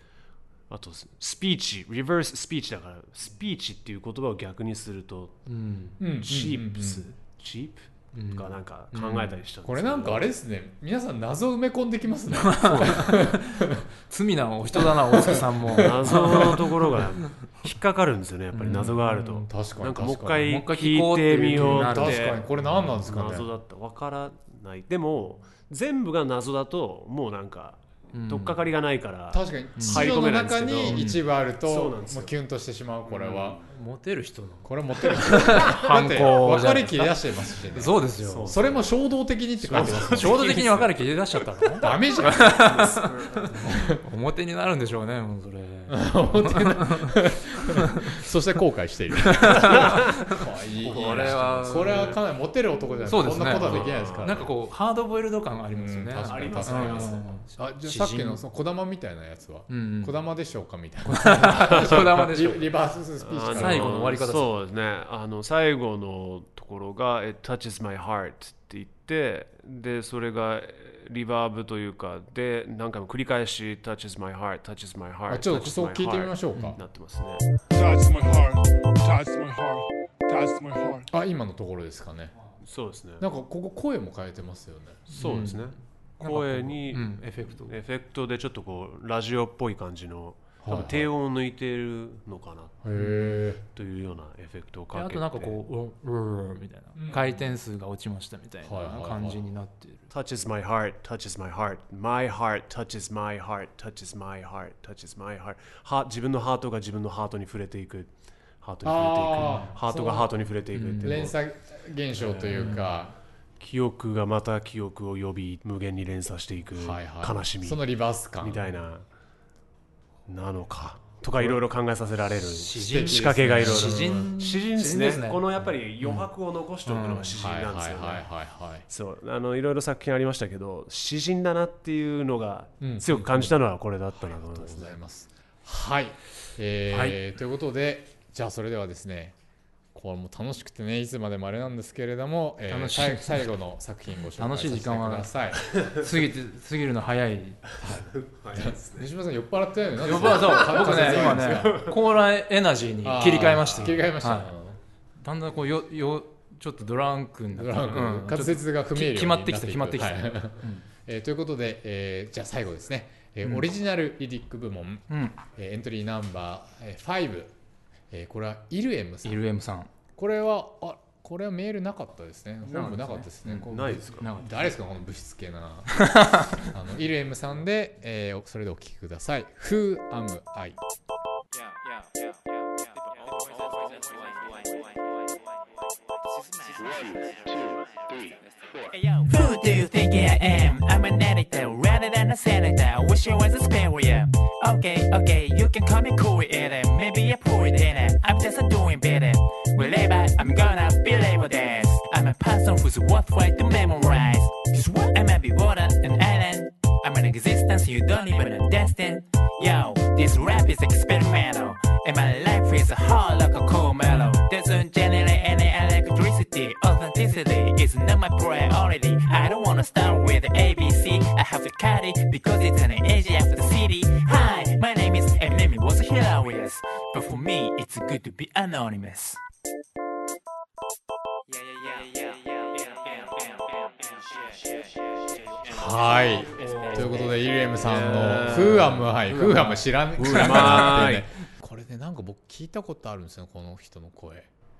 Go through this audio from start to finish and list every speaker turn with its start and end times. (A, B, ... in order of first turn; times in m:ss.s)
0:00.7-0:05.4 A
0:05.4-0:06.0 B
0:06.0-0:07.0 C
0:06.0-0:10.4 A
0:08.1-0:09.4 B
0:09.6-0:13.8 C
0:12.3-0:17.0 B
0:12.6-0:13.1 A
0:14.8-0:15.4 C
0:15.7-0:32.3 A
0:18.5-0:19.0 B
0:18.7-0:20.5 C
0:20.4-0:22.3 B
0:21.5-0:23.5 C
0:28.1-0:28.6 B
0:29.3-0:33.6 C
0:29.8-0:30.2 B
0:30.8-0:31.2 B
0:33.0-0:33.6 A
0:33.7-0:38.5 B
0:34.6-0:40.6 C
0:38.2-0:38.9 A
0:39.6-0:40.9 A
0:39.7-0:47.1 B
0:41.8-0:42.6 C
0:41.8-0:43.9 A
0:43.7-0:44.0 C
0:45.9-0:54.5 C
0:49.4-0:49.9 B
0:50.8-0:52.2 B
0:51.0-0:52.2 A
0:53.0-0:58.4 B
0:53.4-0:54.5 A
0:55.7-1:04.1 C
0:56.2-0:57.4 A
0:59.7-1:00.1 B
1:01.2-1:02.7 B
1:03.2-1:17.5 A
1:03.5-1:04.5 B
1:15.3-1:16.8 C
1:17.7-1:21.1 D
1:21.1-1:22.3 C
1:22.6-1:23.2 A
1:23.2-1:25.0 C
1:25.1-1:32.8 A
1:25.1-1:27.8 B
1:30.6-1:31.1 C
1:32.8-1:33.6 C
1:33.7-1:35.6 A
1:34.9-1:40.1 B
1:37.0-1:37.5 C
1:38.6-1:39.4 C
1:40.1-1:51.4 A
1:48.8-1:50.3 C
1:49.4-1:49.8 B
1:50.7-1:51.2 B
1:51.0-1:53.2 C
1:52.1-1:52.9 A
1:52.5-1:52.8 B
1:53.6-1:59.0 A
1:56.8-1:58.6 C
2:00.3-2:08.3 A
2:02.5-2:05.4 B
2:02.8-2:04.2 C
2:06.8-2:07.4 B
2:07.4-2:08.8 C
2:08.9-2:15.0 A
2:12.8-2:13.5 C
2:14.2-2:19.3 C
2:16.9-2:17.2 B
2:19.9-2:25.8 C
2:22.7-2:23.5 B
2:24.4-2:27.6 B
2:27.8-2:31.9 C
2:27.8-2:29.1 A
2:30.0-2:34.5 B
2:30.0-2:32.1 A
2:33.0-2:34.8 C
2:35.2-2:40.8 B
2:37.5-2:47.5 C
2:45.1-2:45.4 B
2:48.1-2:49.4 C
2:49.2-2:49.9 B
2:50.2-3:00.8 C
2:52.6-2:54.7 B
2:53.6-2:54.3 A
2:56.1-2:56.6 B
3:08.9-3:49.4 E
3:51.5-3:53.5 E
3:55.7-4:04.5 C
3:56.5-3:57.3 B
3:57.8-3:59.6 A
3:58.4-4:01.0 B
4:00.1-4:01.3 A